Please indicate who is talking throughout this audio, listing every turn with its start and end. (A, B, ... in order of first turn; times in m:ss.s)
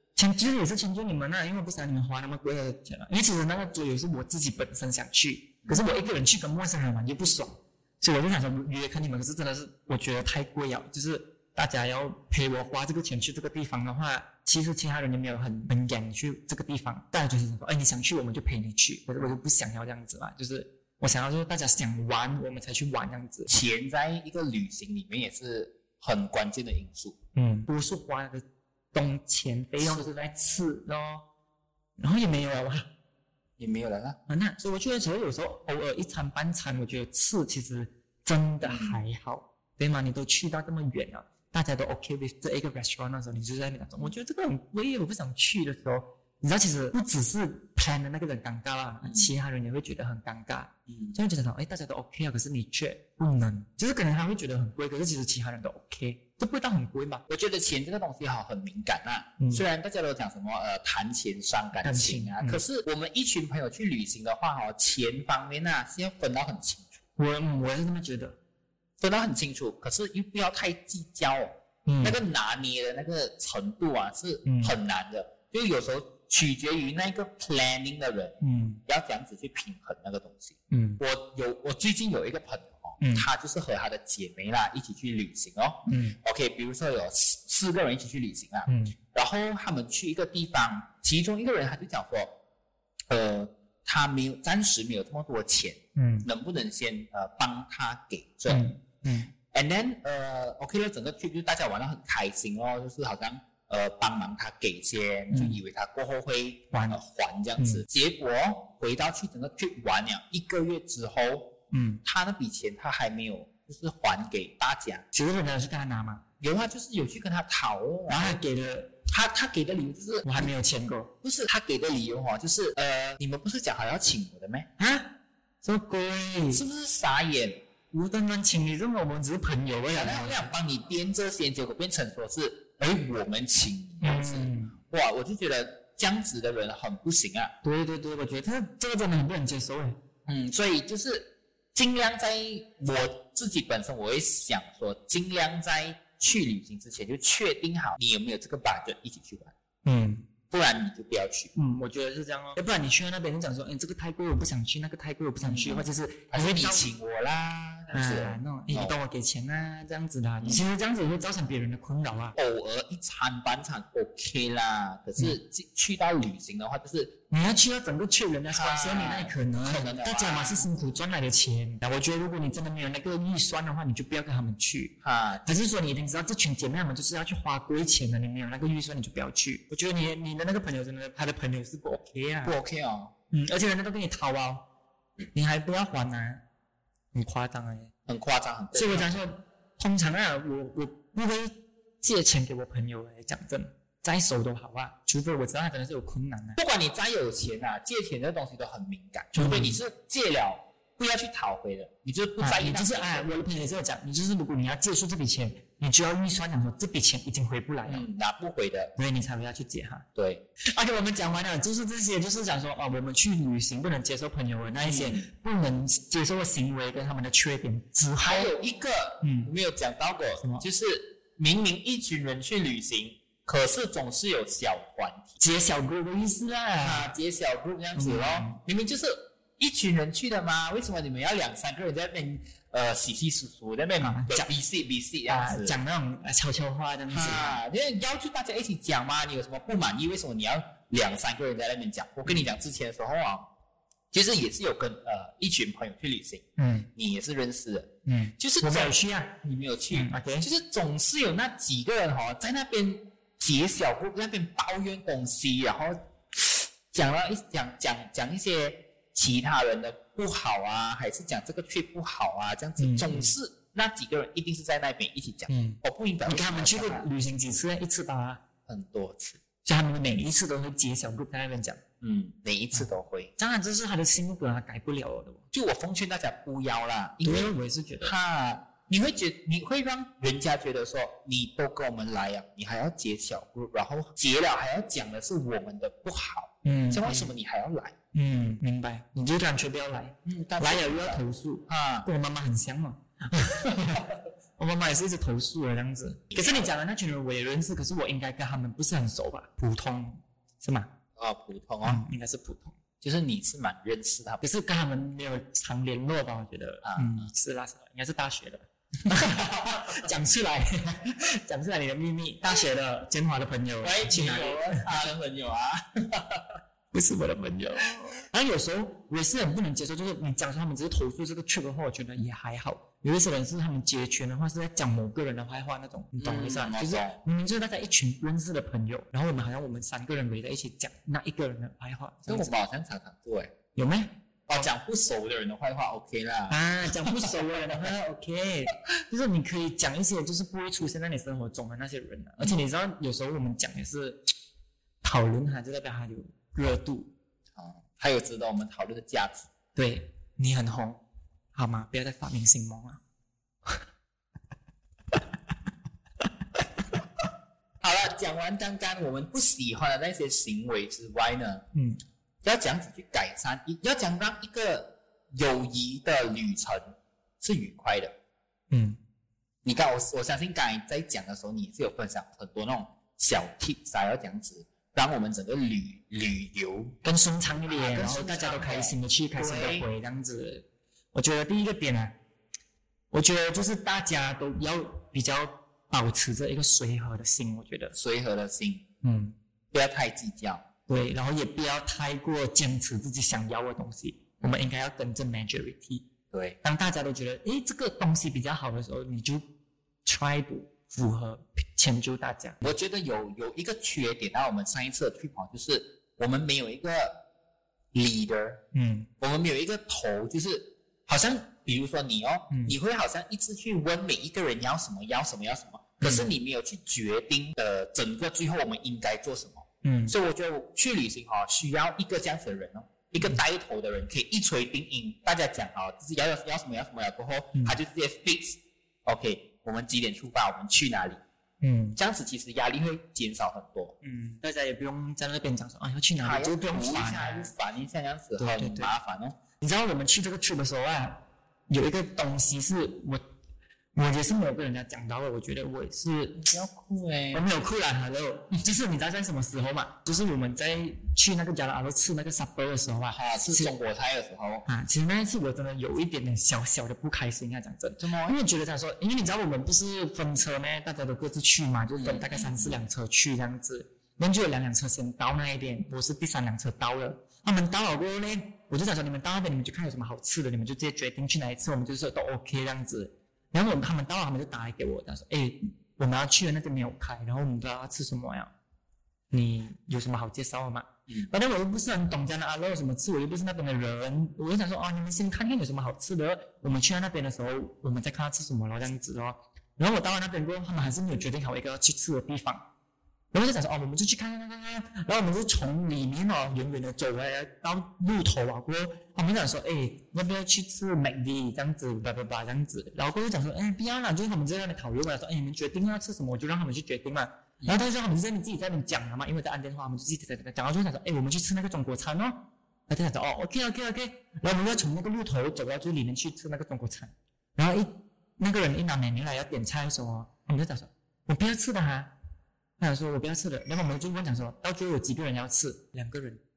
0:00.2-0:23.5 A
0:23.5-0:27.2 B
0:27.3-0:31.2 A
0:29.8-0:30.1 B
0:32.0-0:32.9 A
0:33.6-0:34.2 B
0:34.3-0:57.2 A
0:38.6-0:39.0 B
0:49.0-0:49.3 B
0:50.9-0:51.2 B
0:57.3-1:07.0 B
1:01.8-1:02.6 A
1:07.2-1:08.4 A
1:09.0-1:32.3 B
1:11.8-1:12.2 A
1:14.4-1:14.7 A
1:18.4-1:18.8 A
1:20.7-1:21.0 A
1:23.0-1:23.3 A
1:25.8-1:26.2 A
1:28.7-1:28.9 A
1:33.1-1:38.6 B
1:36.0-1:36.3 A
1:38.5-1:39.3 A
1:39.5-1:55.0 B
1:45.3-1:45.6 A
1:46.7-1:47.0 A
1:47.6-1:47.8 A
1:51.7-1:52.0 A
1:55.1-1:56.2 A
1:56.4-1:58.4 B
1:58.1-1:59.0 A
1:59.1-2:00.5 B
2:00.2-2:01.1 A
2:01.2-2:04.7 B
2:04.8-2:06.6 A
2:06.5-2:07.6 B
2:07.9-2:10.5 A
2:09.9-2:17.5 B
2:14.0-2:14.7 A
2:17.6-2:20.0 A
2:20.3-2:29.5 B
2:29.8-2:30.3 A
2:30.5-2:31.5 B
2:31.5-2:36.9 A
2:35.4-2:39.0 B
2:37.9-2:42.4 A
2:42.4-2:47.1 B
2:47.3-2:54.9 A
2:48.5-2:50.7 B
2:55.0-2:55.6 B
2:55.4-3:02.6 A
3:02.4-3:03.1 B
3:03.3-3:04.7 A
3:05.3-3:06.4 A
3:07.1-3:07.9 A
3:08.1-3:09.2 B
3:08.7-3:16.6 A
3:16.6-3:23.3 B
3:19.3-3:19.8 A
3:22.4-3:28.0 A
3:27.8-3:28.9 B
3:29.0-3:30.0 A
3:30.1-3:30.4 B
3:30.7-3:38.5 A
3:34.8-3:35.3 B
3:38.2-3:45.4 B
3:39.2-3:39.5 A
3:40.4-3:40.6 A
3:45.4-3:47.2 A
3:46.8-3:55.8 B
3:48.0-3:48.6 A
3:54.0-3:54.5 A
3:55.3-3:57.6 A
3:57.1-4:03.5 B
4:04.1-4:27.0 B
4:06.6-4:06.9 A
4:08.0-4:09.3 A
4:09.9-4:10.5 A
4:22.8-4:23.3 A
4:25.5-4:28.4 A
4:28.7-4:29.4 B
4:29.6-4:31.8 A
4:32.0-4:33.3 B
4:33.4-4:35.4 A
4:35.5-4:48.0 B
4:37.2-4:38.1 A
4:46.6-4:47.3 A
4:48.1-4:54.0 A
4:50.2-4:52.1 B
4:54.6-5:00.9 A
4:56.3-4:56.7 B
5:01.2-5:02.0 B
5:01.8-5:02.8 A
5:03.0-5:04.4 B
5:04.4-5:15.1 A
5:06.8-5:07.3 B
5:09.1-5:10.0 B
5:13.8-5:16.4 B
5:16.9-5:32.5 A
5:26.2-5:27.2 B
5:32.3-5:33.5 B
5:33.7-5:34.7 A
5:34.5-5:37.4 B
5:36.5-5:44.2 A
5:45.0-5:47.1 A
5:47.6-5:49.5 B
5:49.7-5:51.0 A
5:51.5-5:53.0 A
5:57.8-6:01.6 B
6:01.7-6:02.0 A
6:02.4-6:08.1 B
6:08.7-6:09.0 A
6:09.6-6:17.0 B
6:17.0-6:22.2 A
6:17.7-6:19.9 B
6:23.1-6:27.9 A
6:27.9-6:28.8 B
6:29.0-6:29.4 A
6:29.7-6:30.6 B
6:30.9-6:36.0 A
6:36.3-6:36.6 B
6:36.6-6:39.5 A
6:40.0-6:42.7 A
6:42.6-6:47.2 B
6:47.9-6:48.6 B
6:48.7-6:49.1 A
6:49.2-7:11.2 B
6:56.0-6:56.3 A
6:59.8-7:00.1 A
7:11.6-7:12.0 A
7:12.0-7:14.0 B
7:14.0-7:17.5 A
7:16.2-7:19.4 B
7:18.4-7:18.9 A
7:19.6-7:23.2 A
7:23.9-7:26.4 A
7:26.4-7:27.4 B
7:27.3-7:33.8 A
7:33.1-7:34.7 B
7:34.7-7:58.5 A
7:38.0-7:38.4 B
7:42.0-7:42.8 B
7:59.3-8:12.6 A
8:13.3-8:42.1 A
8:42.8-8:46.4 A